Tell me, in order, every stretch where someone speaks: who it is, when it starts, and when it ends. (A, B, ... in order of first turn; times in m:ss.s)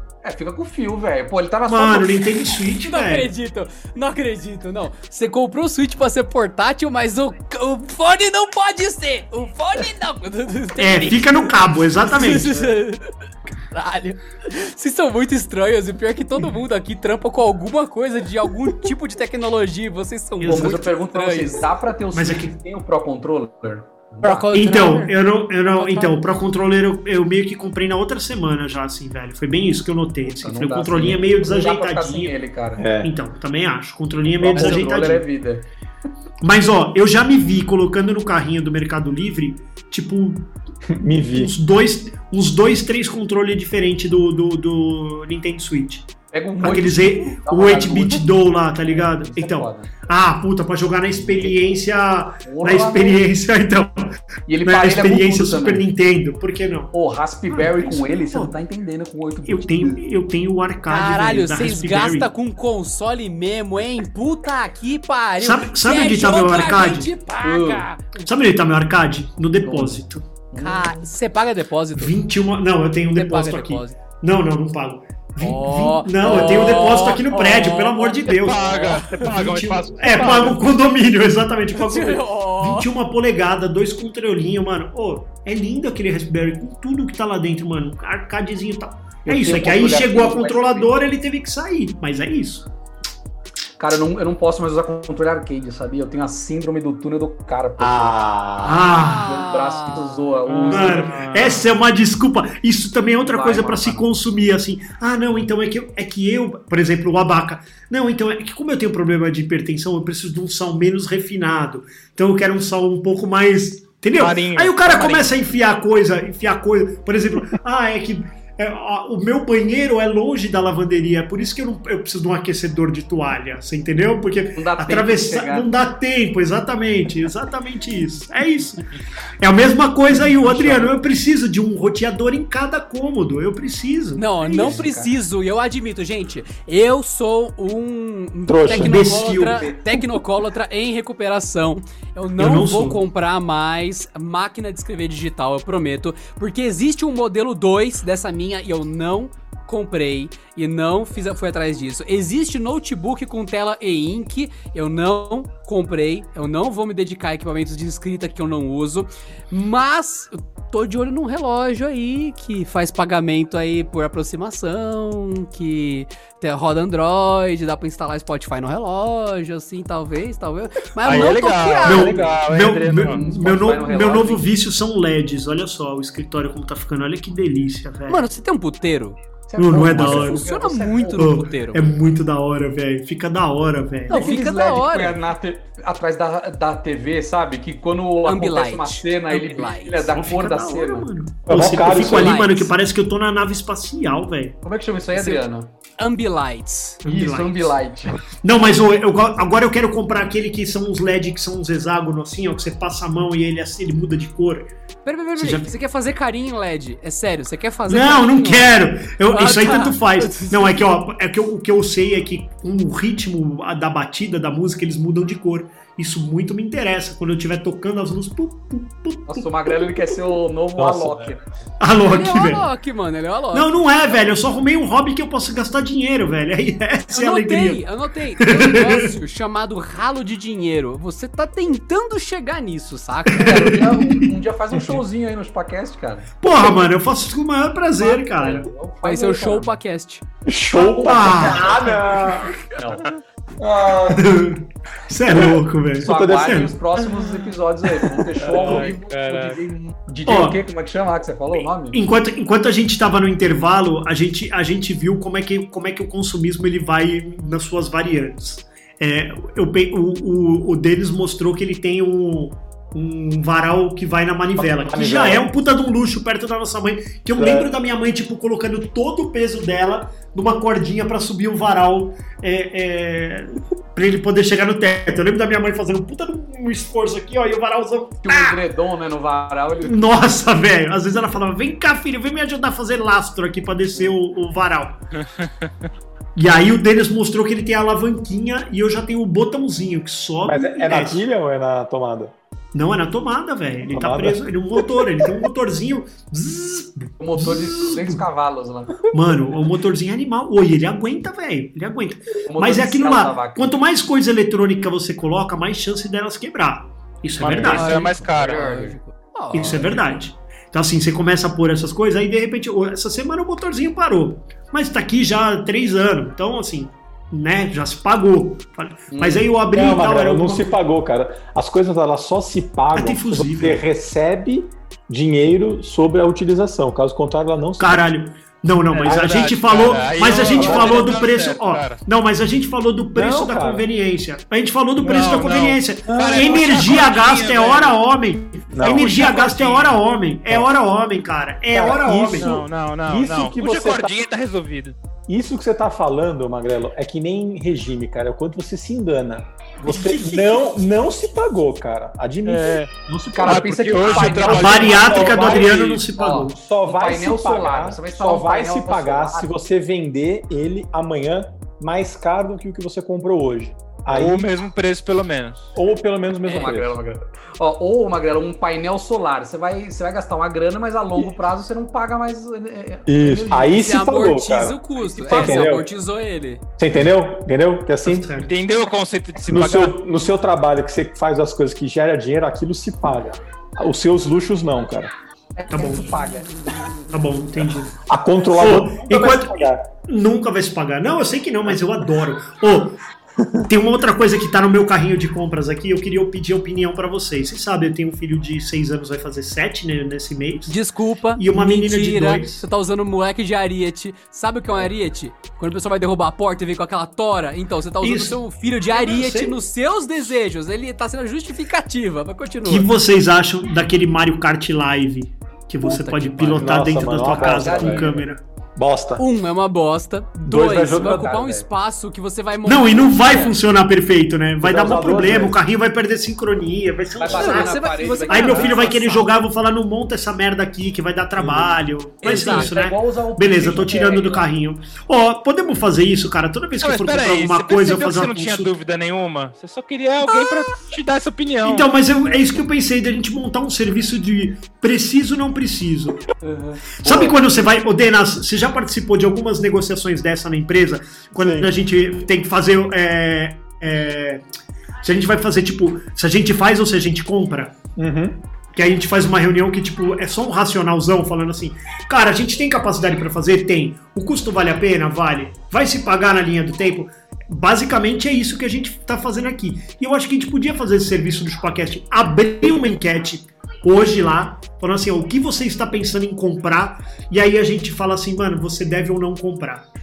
0:00.2-0:02.5 A
0:01.7-0:03.3 B
0:02.8-0:13.1 C
0:10.8-0:12.6 B
0:12.3-0:12.6 A
0:13.7-0:21.6 C
0:20.4-0:20.8 B
0:20.4-0:24.9 A
0:22.1-0:22.6 B
0:24.2-0:25.1 C
0:24.5-0:32.3 B
0:25.7-0:26.1 C
0:30.4-0:32.9 A
0:32.8-0:33.1 D
0:33.0-0:35.2 B
0:34.4-0:34.8 D
0:34.4-0:35.7 A
0:36.4-0:40.5 B
0:40.9-0:41.5 D
0:41.3-0:46.1 B
0:46.3-0:49.9 A
0:46.6-0:56.9 B
0:51.1-0:51.6 A
0:52.4-0:53.2 A
0:54.5-0:55.8 A
0:56.9-1:00.0 A
0:57.5-0:58.5 B
0:59.4-1:02.3 B
1:00.9-1:08.1 C
1:05.4-1:07.1 B
1:07.4-1:07.9 A
1:08.2-1:10.2 B
1:09.6-1:11.0 A
1:10.6-1:12.1 C
1:12.0-1:32.7 B
1:13.1-1:14.0 C
1:15.4-1:19.1 C
1:16.2-1:16.6 A
1:18.3-1:20.6 E
1:21.8-1:22.9 C
1:29.2-1:30.9 A
1:33.8-1:41.2 A
1:37.8-1:38.9 D
1:38.6-1:39.3 B
1:38.9-1:40.2 C
1:40.5-1:41.7 E
1:40.6-2:08.8 B
1:43.2-1:44.1 A
1:54.2-1:55.2 E
2:04.5-2:05.7 A
2:09.4-2:14.8 B
2:10.2-2:10.9 A
2:14.2-2:52.2 C
2:14.4-2:15.1 A
2:18.5-2:19.2 D
2:18.7-2:19.7 B
2:22.4-2:23.0 B
2:51.0-2:53.2 E
2:51.8-2:58.2 B
2:51.9-2:54.5 A
2:58.1-2:59.2 C
2:59.5-3:01.3 A
2:59.6-3:00.4 B
3:00.0-3:01.8 C
3:01.2-3:04.3 B
3:04.1-3:11.1 A
3:04.1-3:05.2 C
3:08.2-3:10.1 C
3:10.1-3:14.6 B
3:11.5-3:12.4 D
3:11.7-3:12.7 C
3:14.6-3:15.7 A
3:15.1-3:15.4 C
3:16.0-3:17.0 C
3:17.0-3:17.8 B
3:17.0-3:18.2 A
3:18.4-3:24.7 B
3:25.0-3:28.7 C
3:25.4-3:25.7 B
3:27.9-3:39.8 B
3:29.3-3:30.9 C
3:39.3-3:41.4 A
3:40.8-3:41.3 D
3:41.8-3:42.6 B
3:42.0-3:44.2 C
3:43.5-3:47.8 B
3:47.1-3:53.7 C
3:48.4-3:49.1 B
3:53.3-3:54.3 B
3:53.4-3:56.3 A
3:54.8-3:55.0 D
3:56.4-3:58.6 B
3:58.0-3:59.8 A
3:59.0-4:00.2 C
4:00.4-4:02.6 D
4:00.7-4:02.0 A
4:00.8-4:01.8 B
4:02.6-4:03.1 A
4:03.6-4:04.3 A
4:04.1-4:06.7 B
4:05.3-4:06.6 D
4:06.0-4:12.0 A
4:08.4-4:08.9 D
4:08.5-4:09.7 E
4:10.2-4:10.6 B
4:11.9-4:38.6 B
4:24.5-4:25.5 D
4:27.4-4:27.7 D
4:38.2-4:40.1 A
4:39.8-4:45.0 B
4:45.2-4:45.9 E
4:46.4-4:51.2 B
4:50.4-4:52.3 D
4:52.7-4:58.2 B
4:53.9-4:55.3 D
4:57.2-4:59.1 A
4:59.1-5:07.9 B
5:02.4-5:03.8 A
5:07.4-5:08.8 E
5:07.6-5:10.0 C
5:07.7-5:09.0 A
5:09.5-5:20.8 B
5:19.1-5:19.5 A
5:19.7-5:28.0 D
5:22.9-5:23.8 B
5:27.8-5:42.6 B
5:28.9-5:32.0 E
5:30.5-5:31.1 D
5:33.1-5:33.9 D
5:35.0-5:38.0 E
5:36.1-5:36.8 D
5:38.7-5:39.3 D
5:38.8-5:40.0 E
5:41.7-5:44.3 D
5:42.4-5:45.0 E
5:45.3-6:04.5 D
5:49.8-5:50.7 A
5:52.4-5:52.9 E
5:53.3-5:59.5 A
5:53.4-5:56.0 E
5:54.4-5:56.6 B
6:04.1-6:05.7 E
6:05.7-6:07.0 D
6:06.4-6:14.1 A
6:13.1-6:15.9 D
6:13.8-6:16.6 C
6:15.0-6:15.8 A
6:16.8-6:18.3 D
6:18.0-6:18.6 B
6:18.4-6:20.0 E
6:19.5-6:25.1 D
6:25.6-6:26.5 A
6:25.7-6:26.1 B
6:27.1-6:27.9 B
6:28.0-6:29.8 D
6:28.6-6:33.0 B
6:33.4-6:33.7 D
6:33.7-6:40.8 B
6:40.7-6:52.9 C
6:41.4-6:42.6 B
6:48.0-6:49.6 B
6:52.6-6:58.4 B
6:55.8-6:56.8 C
6:56.5-6:58.2 D
6:57.3-6:58.3 A
6:58.8-6:59.2 D
6:59.2-7:03.6 C
7:00.4-7:01.5 D
7:00.9-7:01.6 A
7:02.6-7:18.7 B
7:04.6-7:05.6 D
7:07.2-7:09.0 A
7:07.3-7:09.3 C
7:11.4-7:11.7 D
7:12.2-7:12.7 C
7:12.2-7:14.5 A
7:16.8-7:21.9 E
7:21.6-7:26.2 B
7:26.4-7:27.4 A
7:27.0-7:34.4 B
7:31.4-7:31.7 D
7:35.0-7:37.8 B
7:38.0-7:38.4 D
7:38.7-7:59.8 B